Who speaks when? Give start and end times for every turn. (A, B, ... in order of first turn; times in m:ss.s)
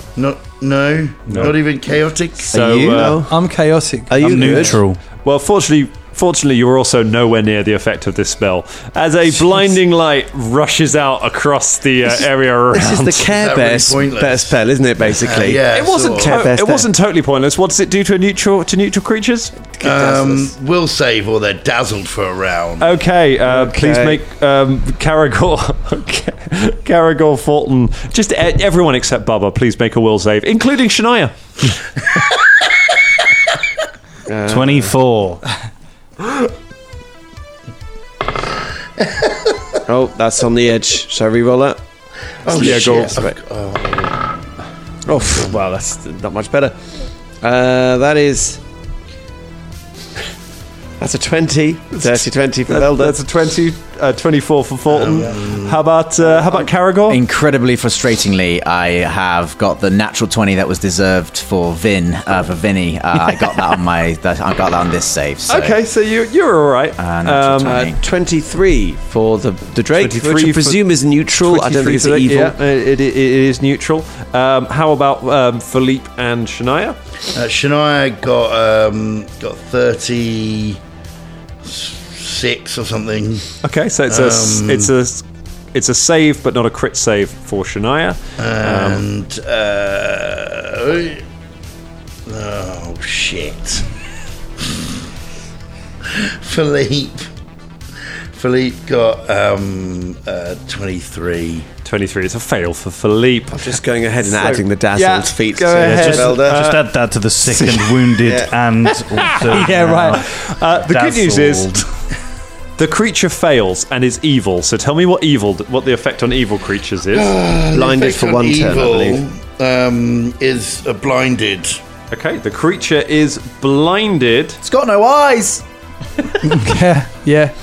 0:00.2-0:02.5 A
0:01.3-0:01.6 B
0:02.5-0:03.2 C
0:02.5-0:03.2 D
0:02.7-0:03.3 E
0:03.3-0:04.8 F
0:04.1-0:04.8 E
0:04.2-0:05.0 B
0:05.2-0:13.2 C
0:12.7-0:16.9 E
0:13.3-0:16.4 A
0:15.7-0:19.6 C
0:19.8-0:20.5 E
0:19.8-0:22.9 A
0:22.8-0:31.8 C
0:23.4-0:24.2 E
0:34.3-0:34.9 E
0:34.5-0:35.4 B
0:39.0-0:39.5 A
0:39.9-0:41.8 E
0:42.4-0:44.2 A
0:42.4-0:43.4 E
0:42.5-0:43.1 C
0:45.0-0:46.7 E
0:47.4-0:48.6 E
0:51.0-0:53.2 E
0:52.0-0:57.2 C
0:54.9-0:55.8 A
0:56.3-0:56.7 E
0:57.1-1:05.8 D
1:05.5-1:07.8 C
1:07.0-1:08.0 D
1:07.6-1:12.5 E
1:09.9-1:10.8 C
1:11.4-1:17.0 C
1:17.3-1:20.8 A
1:21.6-1:23.5 A
1:23.6-1:29.0 C
1:24.1-1:24.9 A
1:28.4-1:31.2 A
1:32.2-1:33.9 A
1:34.6-1:35.0 A
1:36.1-1:37.3 A
1:38.3-1:41.7 A
1:41.8-1:46.9 C
1:43.5-1:46.7 E
1:45.8-1:51.9 B
1:47.5-1:48.5 E
1:49.1-1:51.8 C
1:52.8-1:57.4 C
1:57.1-2:01.8 A
1:57.7-1:59.2 E
2:02.1-2:04.6 C
2:04.6-2:05.6 D
2:06.4-2:07.5 F